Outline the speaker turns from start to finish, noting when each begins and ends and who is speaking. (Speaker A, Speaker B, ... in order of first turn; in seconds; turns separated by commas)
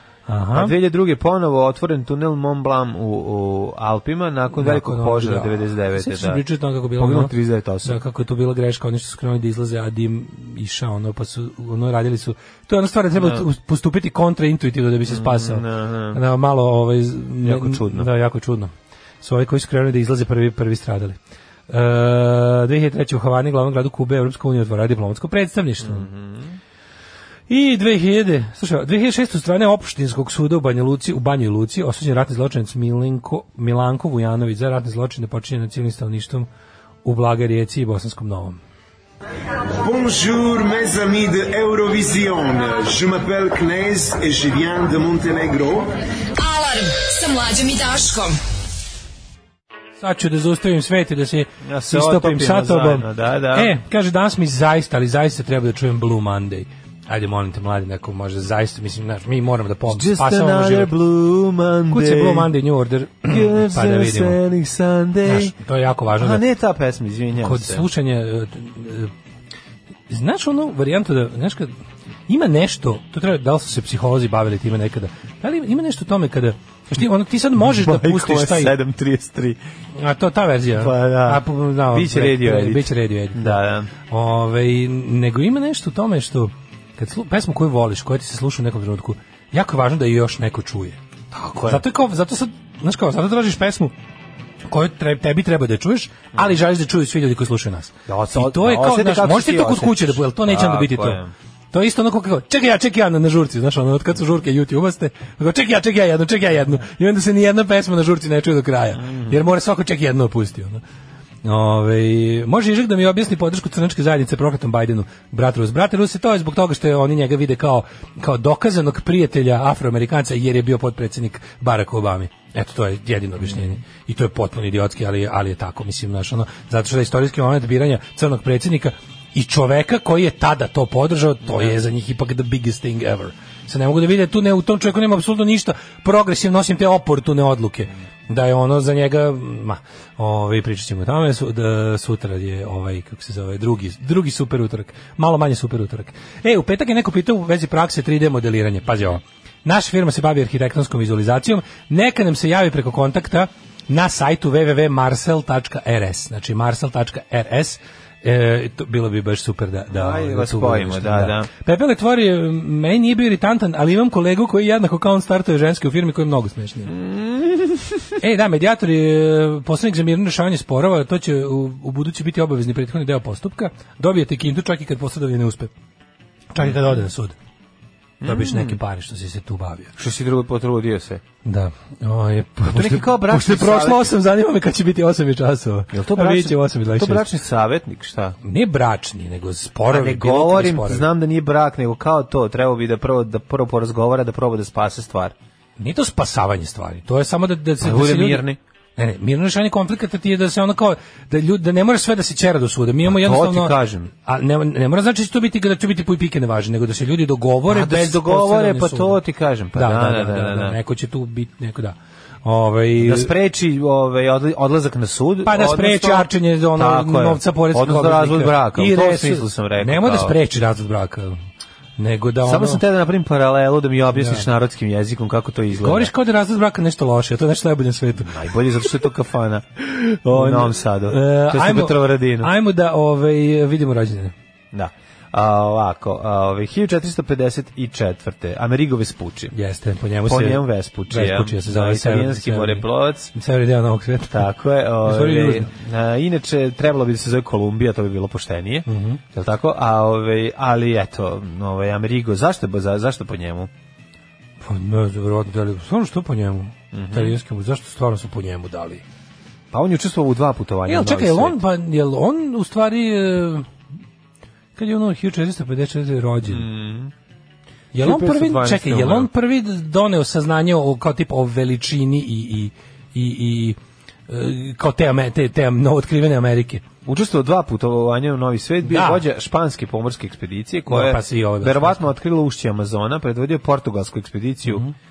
Speaker A: 0.3-0.7, Speaker B: 0.5-6.4, Speaker A: 4.5-7.3, Speaker B: 7.0-8.0, Speaker A: 7.8-21.2, Speaker B: 13.2-13.4, Speaker B: 15.1-16.2, Speaker B: 17.4-18.1, Speaker A: 21.7-26.1, Speaker B: 25.8-26.6, Speaker A: 27.5-36.5, Speaker A: 37.0-38.6, Speaker C: 39.8-45.9, Speaker D: 46.4-48.4, Speaker A: 50.0-60.9, Speaker B: 51.6-53.7, Speaker B: 59.9-62.5, Speaker A: 61.9-64.4, Speaker B: 63.3-65.5, Speaker A: 65.2-66.4, Speaker B: 66.2-67.9, Speaker A: 67.4-69.1, Speaker A: 70.1-71.7, Speaker A: 72.3-78.8, Speaker B: 77.6-79.6, Speaker A: 80.0-91.0, Speaker B: 80.8-83.9, Speaker B: 91.3-91.8, Speaker A: 91.7-93.9, Speaker A: 94.7-101.2, Speaker B: 98.1-101.3, Speaker A: 101.7-110.8, Speaker B: 109.0-109.4, Speaker A: 111.5-166.9, Speaker B: 159.9-161.5, Speaker B: 166.9-168.1, Speaker A: 168.2-175.7, Speaker A: 176.5-177.4, Speaker B: 178.2-178.8, Speaker A: 178.2-179.9, Speaker B: 180.0-181.2, Speaker A: 181.4-187.3, Speaker B: 182.7-184.1, Speaker B: 185.9-188.4, Speaker A: 188.4-191.1, Speaker B: 189.9-195.3, Speaker A: 195.8-198.4, Speaker B: 197.8-198.6, Speaker A: 199.0-209.2, Speaker B: 203.1-204.1, Speaker B: 207.7-210.8, Speaker A: 209.8-213.3, Speaker B: 213.0-220.4, Speaker A: 215.4-221.4, Speaker A: 222.0-222.8, Speaker B: 222.4-226.1, Speaker A: 224.2-224.5, Speaker A: 225.8-228.9, Speaker B: 228.2-229.7, Speaker A: 229.8-234.3, Speaker B: 230.2-232.5, Speaker B: 234.7-239.5, Speaker A: 239.5-244.5, Speaker B: 240.3-243.3, Speaker B: 244.3-253.7, Speaker A: 245.0-245.7, Speaker A: 248.9-249.2, Speaker A: 254.6-259.0, Speaker B: 256.9-257.4, Speaker B: 259.7-261.6, Speaker A: 260.9-263.7, Speaker A: 264.8-266.7, Speaker B: 266.5-267.1, Speaker A: 267.9-276.8, Speaker B: 268.0-269.3, Speaker B: 277.1-284.9, Speaker A: 278.8-279.2, Speaker A: 280.9-282.1, Speaker A: 284.7-284.9